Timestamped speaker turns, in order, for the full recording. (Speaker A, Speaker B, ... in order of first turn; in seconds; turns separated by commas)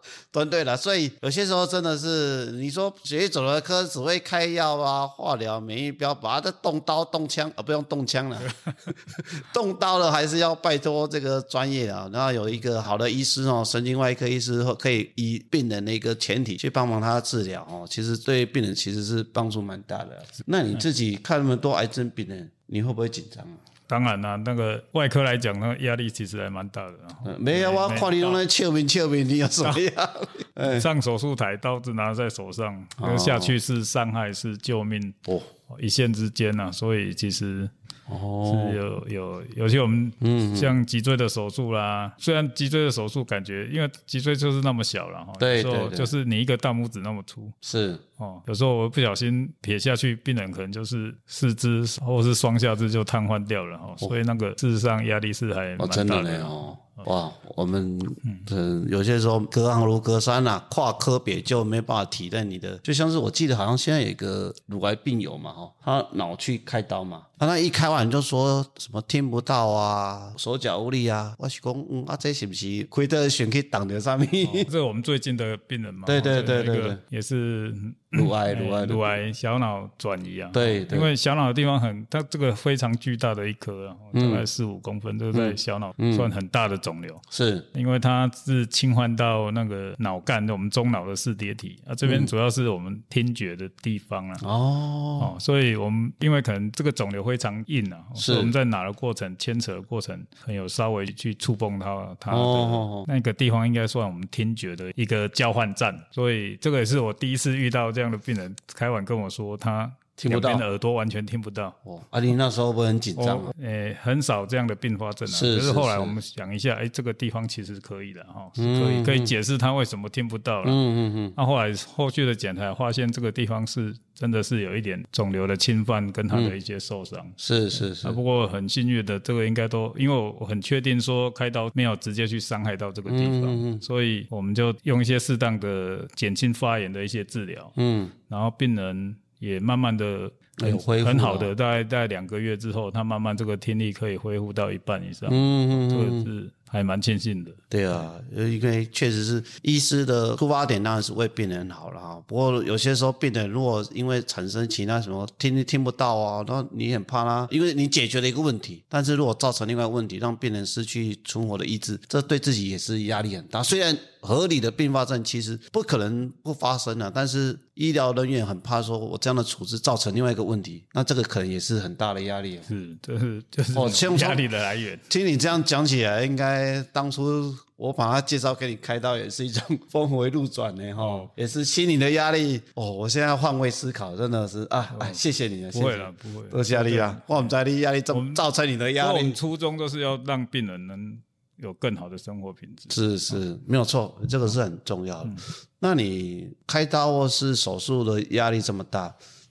Speaker A: 0.3-23.6, Speaker B: 23.9-28.4, Speaker A: 27.2-30.9, Speaker B: 30.6-35.2, Speaker A: 33.0-33.5, Speaker B: 35.7-37.7, Speaker A: 38.1-38.8, Speaker B: 38.5-47.5, Speaker A: 40.2-40.8, Speaker A: 45.4-46.1, Speaker A: 47.6-48.0, Speaker B: 48.2-56.8, Speaker A: 55.8-74.7, Speaker B: 74.4-94.4, Speaker A: 76.0-77.0, Speaker A: 78.1-79.2, Speaker A: 80.5-81.1, Speaker A: 84.1-84.5, Speaker A: 85.3-86.3, Speaker A: 87.3-87.7, Speaker A: 92.0-92.3, Speaker A: 94.4-95.3, Speaker B: 95.2-111.8, Speaker A: 98.2-98.5, Speaker A: 102.3-103.1, Speaker A: 110.2-110.6, Speaker A: 111.8-113.5, Speaker B: 113.2-120.8, Speaker A: 115.3-116.2, Speaker A: 118.6-119.3, Speaker A: 120.6-121.4, Speaker B: 121.4-127.4, Speaker A: 126.3-126.5, Speaker A: 127.4-128.2, Speaker B: 128.0-137.7, Speaker A: 133.1-133.8, Speaker A: 137.8-138.1, Speaker B: 138.3-148.0, Speaker A: 140.6-141.5, Speaker A: 145.3-146.3, Speaker A: 147.7-172.7, Speaker B: 172.7-175.0, Speaker A: 173.7-174.5, Speaker A: 175.1-189.4, Speaker B: 181.0-181.3, Speaker B: 184.9-185.2, Speaker B: 185.7-187.5, Speaker B: 188.1-188.4, Speaker B: 189.0-193.4, Speaker A: 192.9-199.2